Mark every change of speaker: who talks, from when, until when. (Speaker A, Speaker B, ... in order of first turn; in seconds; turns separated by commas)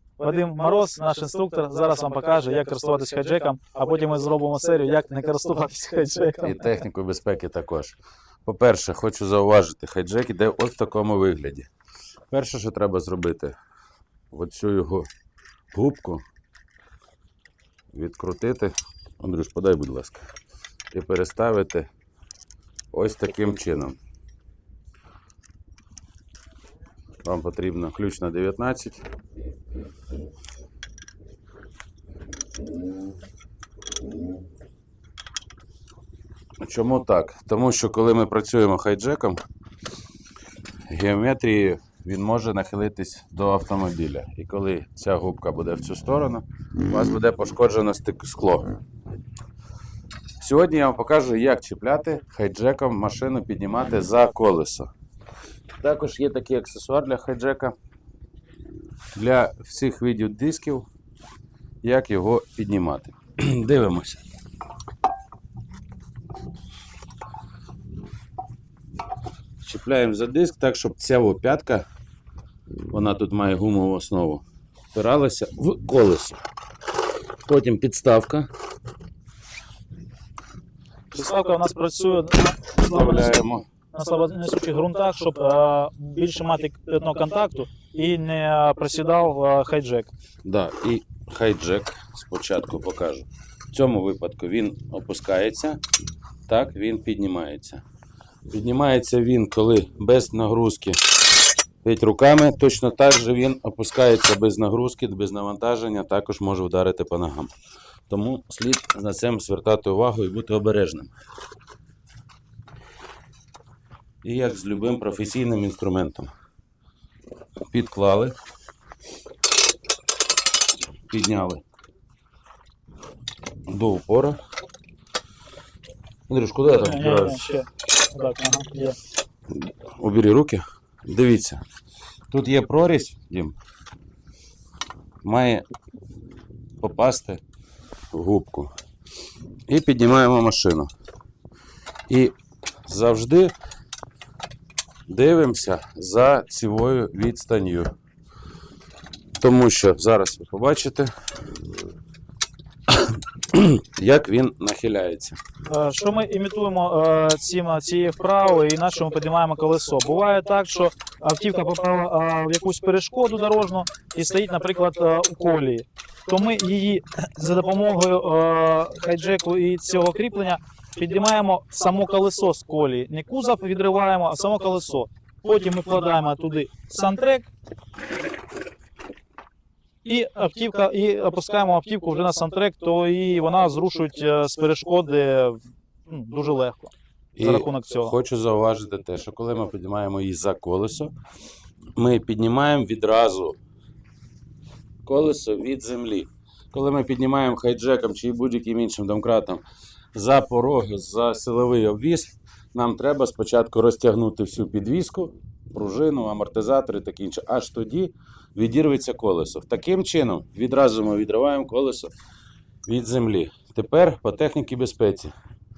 Speaker A: 0.2-6.8, Speaker B: 6.4-11.7, Speaker B: 12.3-13.5, Speaker B: 14.3-15.1, Speaker B: 15.7-16.2, Speaker B: 17.9-20.2, Speaker B: 20.9-21.9, Speaker B: 22.9-24.0, Speaker B: 27.2-29.0, Speaker B: 36.6-39.4, Speaker B: 40.9-48.7, Speaker B: 50.4-54.9, Speaker B: 55.8-57.7, Speaker B: 59.1-60.9, Speaker B: 61.8-64.2, Speaker B: 69.6-71.8, Speaker B: 72.9-76.4, Speaker B: 77.5-78.5, Speaker A: 81.1-83.4, Speaker B: 82.8-83.7, Speaker A: 83.9-90.1, Speaker B: 90.4-95.8, Speaker B: 96.5-97.8, Speaker B: 98.5-101.0, Speaker B: 101.8-107.5, Speaker B: 108.1-111.1, Speaker B: 114.2-116.3, Speaker B: 117.7-118.3, Speaker B: 121.1-121.6, Speaker B: 123.7-124.4, Speaker B: 126.3-127.4, Speaker A: 126.7-128.9, Speaker B: 129.5-131.6, Speaker B: 132.3-133.6, Speaker B: 135.2-135.6, Speaker B: 136.8-137.4, Speaker B: 138.1-138.7, Speaker B: 139.7-140.9, Speaker B: 142.1-142.3, Speaker B: 142.8-143.5, Speaker B: 145.1-147.9, Speaker B: 149.4-151.1, Speaker B: 152.9-155.4, Speaker A: 155.7-177.5, Speaker A: 180.0-188.1, Speaker B: 187.3-191.1, Speaker B: 191.9-193.6, Speaker B: 195.0-199.6, Speaker B: 200.1-212.1, Speaker B: 212.8-215.3